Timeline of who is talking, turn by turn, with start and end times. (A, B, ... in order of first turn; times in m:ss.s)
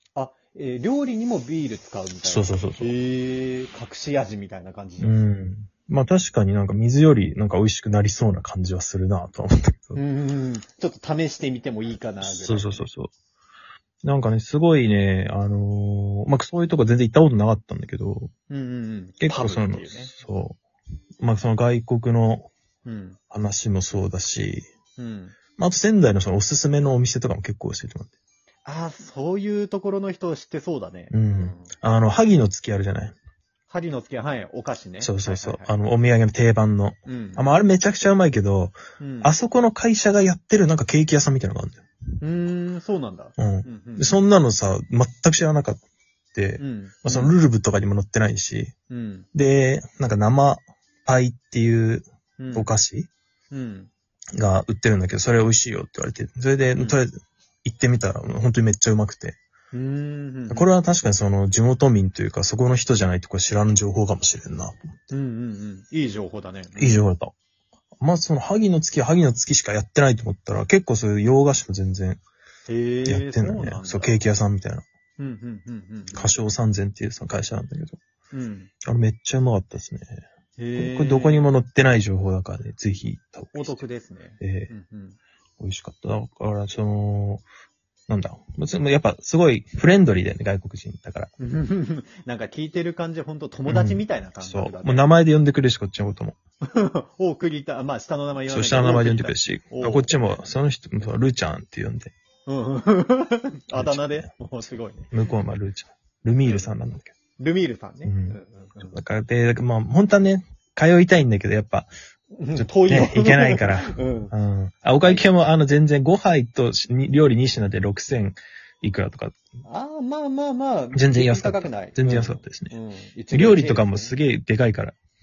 0:00.2-0:05.2 A
0:02.2-0:02.9 B
0:05.0-0:10.0 B
0:10.0-0:12.9 A
0:12.2-0:13.1 B
0:14.0-0:18.3 B
0:18.5-0:20.1 A
0:19.2-0:20.6 B
0:21.2-0:22.5 B
0:22.8-0:23.2 A
0:23.3-0:24.7 B
0:25.0-0:25.4 A
0:25.6-0:28.1 B
0:28.6-0:31.7 A
0:31.1-0:33.2 B
0:33.7-0:35.7 A
0:35.0-0:41.8 B
0:37.1-0:37.5 A
0:39.0-0:39.3 A
0:42.2-0:44.2 A
0:43.4-0:45.8 B
0:46.3-0:48.7 B
0:46.6-0:47.3 A
0:48.9-0:49.3 A
0:49.3-0:53.1 B
0:52.4-0:52.7 A
0:53.5-0:53.9 A
0:54.4-0:59.4 B
0:59.7-1:00.7 A
1:00.5-1:04.8 B
1:05.1-1:07.1 A
1:06.8-1:07.3 B
1:08.0-1:12.2 B
1:12.7-1:14.2 A
1:13.1-1:14.8 B
1:15.2-1:16.3 A
1:16.1-1:18.0 B
1:18.3-1:18.7 A
1:18.8-1:20.2 B
1:20.6-1:21.5 A
1:20.8-1:23.8 B
1:23.5-1:25.2 A
1:24.4-1:24.7 B
1:25.6-1:27.4 B
1:28.1-1:31.3 B
1:31.4-1:35.1 A
1:33.7-1:36.4 B
1:36.6-1:40.5 A
1:38.5-1:42.1 B
1:42.5-1:45.1 A
1:43.8-1:44.3 B
1:45.1-1:47.1 B
1:46.4-1:46.7 A
1:47.4-1:49.0 A
1:48.0-1:51.9 B
1:52.3-1:54.3 A
1:52.6-1:59.4 B
1:55.0-1:55.3 A
1:59.6-2:04.2 A
2:00.9-2:02.7 B
2:03.3-2:05.0 B